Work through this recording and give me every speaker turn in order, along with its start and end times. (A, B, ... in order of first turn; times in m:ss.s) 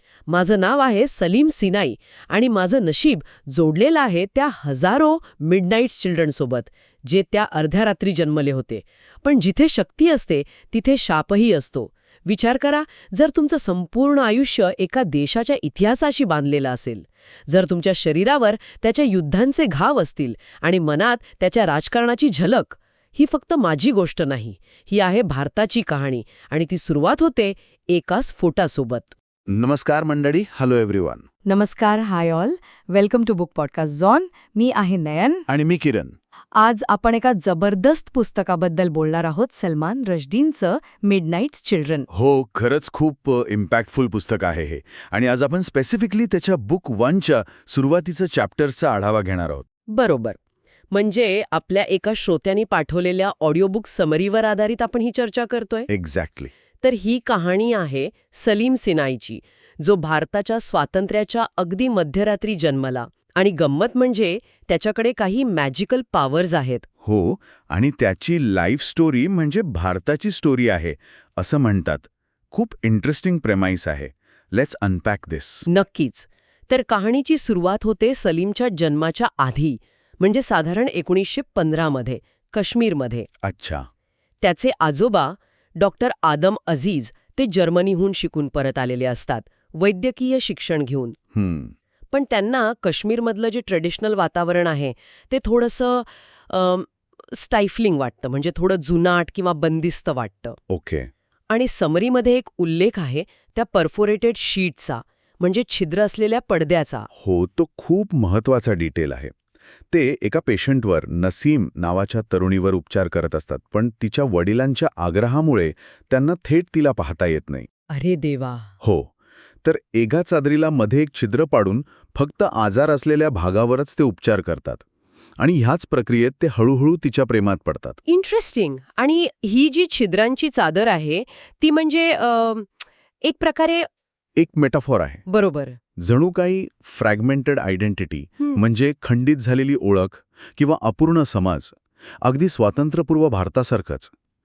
0:00.3-0:29.2 A
0:29.5-0:31.2 B
0:31.5-0:32.3 A
0:31.5-0:35.4 C
0:33.1-0:34.0 A
0:35.5-0:36.2 B
0:36.6-0:39.7 A
0:37.0-0:41.8 C
0:40.9-0:42.0 A
0:42.1-0:49.6 B
0:49.9-0:50.4 A
0:50.9-0:55.9 A
0:55.9-0:56.5 B
0:56.8-1:06.9 A
1:07.0-1:15.7 B
1:15.7-1:23.3 A
1:23.4-1:23.9 B
1:24.4-1:31.2 A
1:31.4-1:31.7 B
1:32.1-1:40.6 A
1:40.7-1:41.1 B
1:41.5-1:47.1 A
1:47.2-1:49.3 B
1:49.9-1:57.7 B
1:57.9-1:58.7 A
1:58.8-1:59.1 B
1:59.6-2:04.8 B
2:05.4-2:08.0 B
2:08.1-2:13.9 A
2:14.4-2:15.2 B
2:15.3-2:15.8 A
2:16.0-2:24.1 B